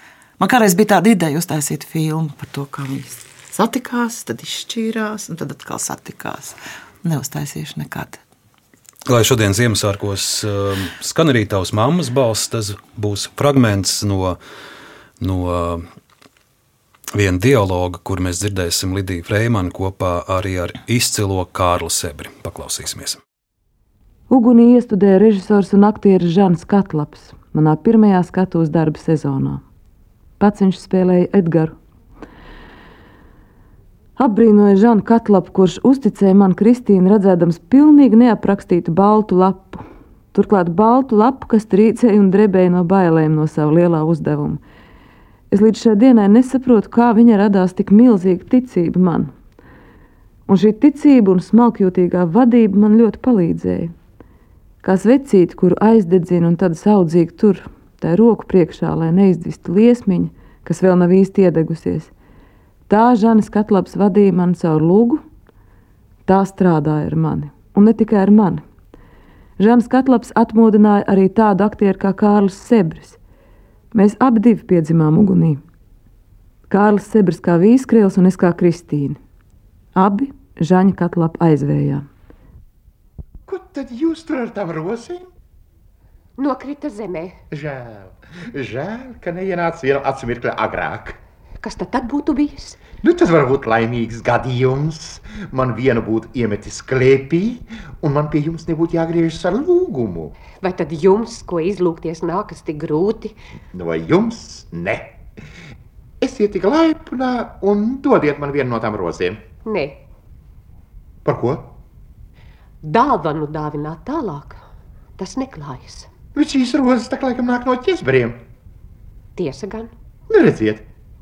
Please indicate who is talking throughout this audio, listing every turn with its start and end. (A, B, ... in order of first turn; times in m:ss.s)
0:00.4-0:08.2 A
0:09.1-0:14.4 B
0:15.2-0:15.9 B
0:17.1-0:23.2 B
0:24.3-0:29.6 C
0:30.4-0:31.7 C
0:34.2-0:39.8 C
0:40.3-0:44.6 C
0:45.5-0:49.3 C
0:50.5-0:53.9 C
0:54.8-1:02.1 C
1:02.9-1:05.2 C
1:06.3-1:08.6 C
1:09.6-1:13.2 C
1:13.9-1:15.6 C
1:16.7-1:19.2 C
1:20.0-1:22.1 C
1:23.5-1:25.3 D
1:26.4-1:27.4 E
1:27.5-1:31.2 D
1:31.6-1:32.8 E
1:33.0-1:40.4 D
1:40.6-1:43.4 E
1:43.7-1:45.2 D
1:46.2-1:49.5 D
1:49.6-1:50.0 E
1:51.2-1:51.7 D
1:52.8-1:54.6 E
1:55.2-1:56.1 E
1:56.3-1:58.4 D
1:59.4-1:59.9 E
2:00.3-2:00.9 D